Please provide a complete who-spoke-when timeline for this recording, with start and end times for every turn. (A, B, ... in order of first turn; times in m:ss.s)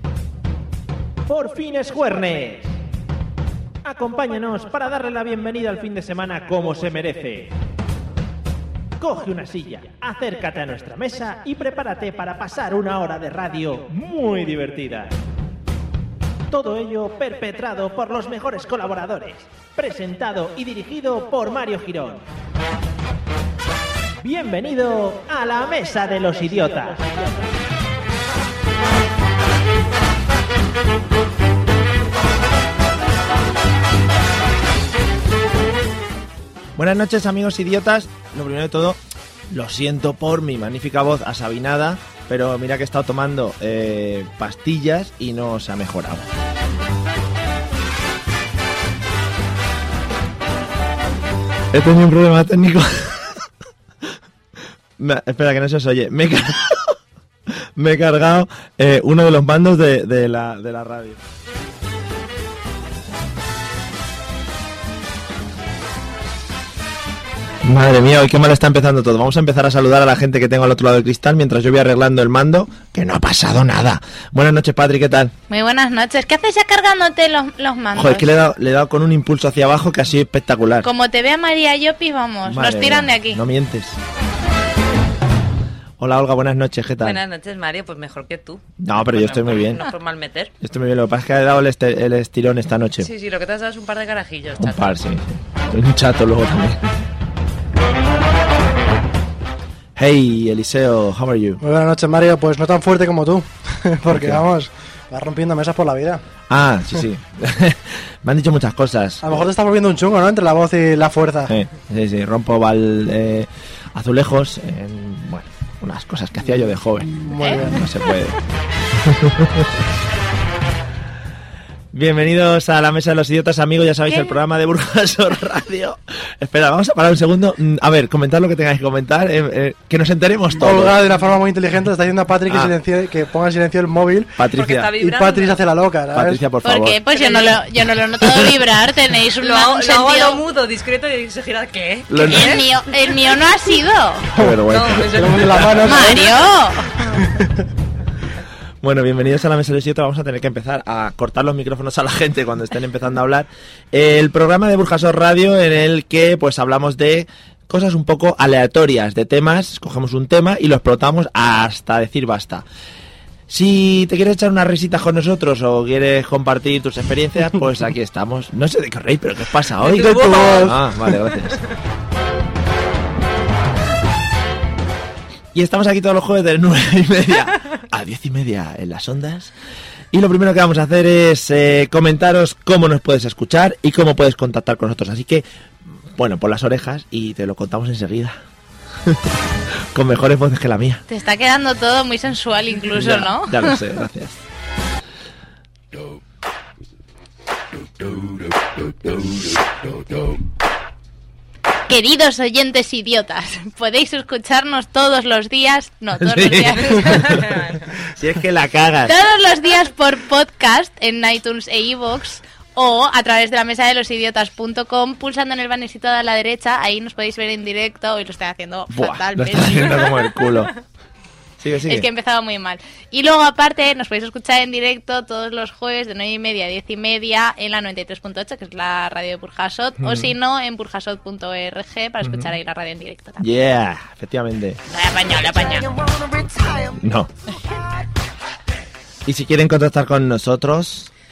0:01.3-0:02.6 A
0:03.9-0:06.6 A
0:06.4-0:07.4 B
0:09.0-0:15.0 A
0:16.5-0:22.2 A
0:24.2-0:27.4 A
0:36.8-0:39.0 B
0:39.5-0:46.3 B
0:51.7-0:53.5 B
0:55.0-0:57.0 B
0:57.8-1:01.2 B
1:07.6-1:15.3 B
1:15.5-1:18.3 C
1:18.0-1:20.9 B
1:20.8-1:23.4 C
1:22.4-1:24.0 B
1:26.0-1:27.2 B
1:27.0-1:30.5 D
1:28.8-1:29.8 B
1:30.6-1:33.1 B
1:33.0-1:35.0 D
1:34.6-1:37.0 B
1:40.0-1:41.6 B
1:41.6-1:46.2 E
1:44.1-1:44.4 B
1:46.5-1:49.5 B
1:49.2-1:51.5 E
1:51.5-1:58.4 B
1:56.5-1:57.8 E
1:59.0-1:59.7 B
2:01.9-2:11.0 B
2:04.1-2:04.4 C
2:10.6-2:14.4 E
2:14.4-2:14.9 B
2:14.5-2:15.6 D
2:15.0-2:16.4 E
2:16.1-2:17.0 B
2:16.6-2:20.4 C
2:17.2-2:17.6 D
2:18.2-2:18.5 B
2:19.4-2:22.6 D
2:22.1-2:22.6 B
2:22.2-2:24.3 C
2:24.3-2:25.8 B
2:24.7-2:26.6 D
2:25.1-2:26.4 E
2:25.8-2:27.0 C
2:27.0-2:27.6 E
2:28.8-2:42.6 B
2:43.5-2:51.6 B
2:49.8-2:50.7 D
2:50.0-2:50.7 E
2:55.5-2:59.5 B
3:00.1-3:08.4 B
3:09.9-3:11.0 B
3:11.1-3:13.8 C
3:12.9-3:14.4 B
3:19.1-3:19.4 B
3:21.9-3:27.4 C
3:26.2-3:29.1 B
3:27.0-3:27.9 D
3:29.0-3:40.2 C
3:38.9-3:40.7 B
3:41.6-3:42.1 B
3:41.9-3:53.4 C
3:50.0-3:50.3 B
3:52.2-3:52.5 B
3:53.4-3:54.8 B
3:54.9-3:56.0 C
3:56.9-3:57.3 B
3:59.2-4:01.1 B